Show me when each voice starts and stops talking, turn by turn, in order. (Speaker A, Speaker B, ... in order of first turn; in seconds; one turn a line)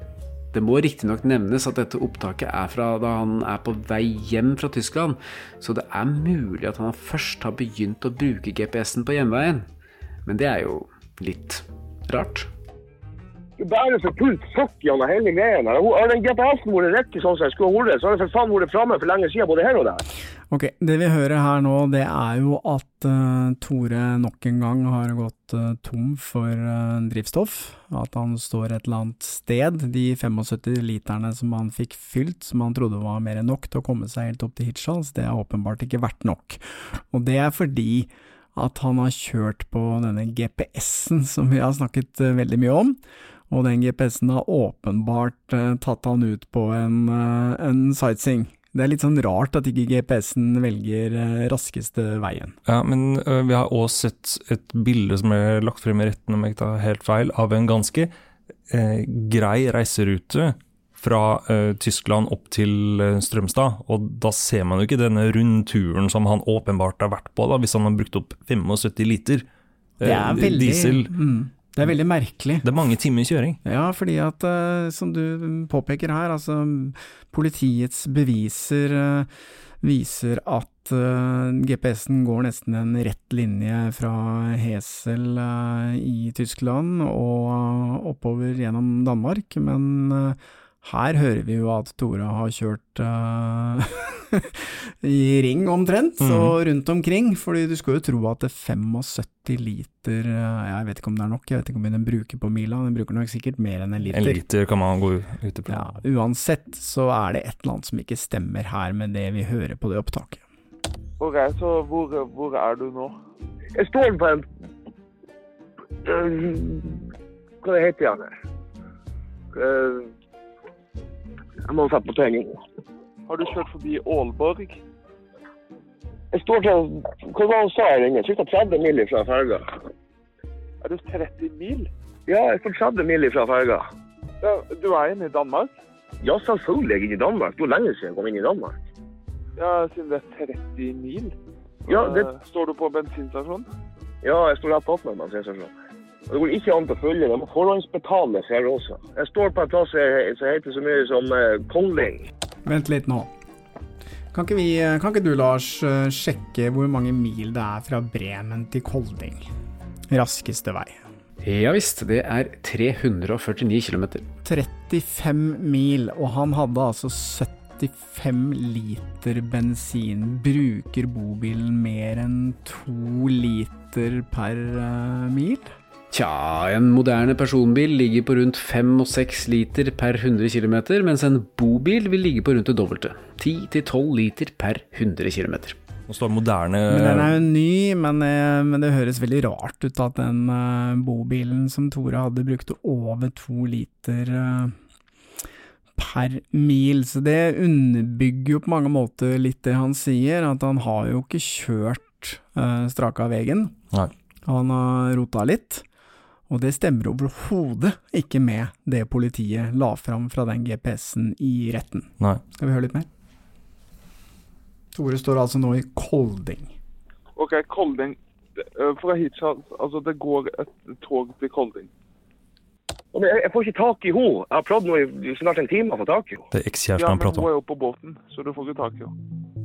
Speaker A: 0.5-9.7
Speaker A: 10.2-12.5
Speaker B: 13.6-20.0
Speaker C: 20.5-52.5
Speaker D: 52.7-58.1
Speaker D: 58.7-69.5
Speaker D: 70.0-71.1
Speaker C: 70.0-72.7
Speaker D: 72.6-73.6
Speaker C: 73.6-79.3
Speaker C: 79.8-104.4
Speaker D: 96.2-96.5
Speaker D: 104.1-105.9
Speaker C: 105.7-110.4
Speaker E: 111.2-113.2
Speaker B: 113.8-114.5
Speaker B: 116.0-117.0
Speaker B: 117.6-118.3
Speaker B: 119.5-120.1
Speaker B: 121.7-122.6
Speaker E: 123.3-124.8
Speaker B: 126.3-129.7
Speaker E: 130.8-131.9
Speaker B: 132.3-133.9
Speaker E: 134.4-135.7
Speaker B: 136.2-138.7
Speaker E: 139.6-141.3
Speaker E: 141.8-143.7
Speaker B: 141.9-142.3
Speaker B: 144.2-145.7
Speaker B: 146.3-152.3
Speaker C: 152.7-153.3
Speaker C: 154.3-159.5
Speaker C: 160.1-161.0
Speaker A: 161.4-164.2
Speaker C: 164.4-175.7
Speaker A: 176.1-185.8
Speaker D: 186.1-187.4
Speaker C: 186.9-194.7
Speaker C: 196.0-203.7
Speaker C: 204.4-205.8
Speaker C: 206.5-213.1
Speaker C: 214.9-216.7
Speaker E: 217.3-218.2
Speaker E: 218.8-221.9
Speaker B: 223.1-226.4
Speaker D: 226.5-227.5
Speaker E: 226.9-229.1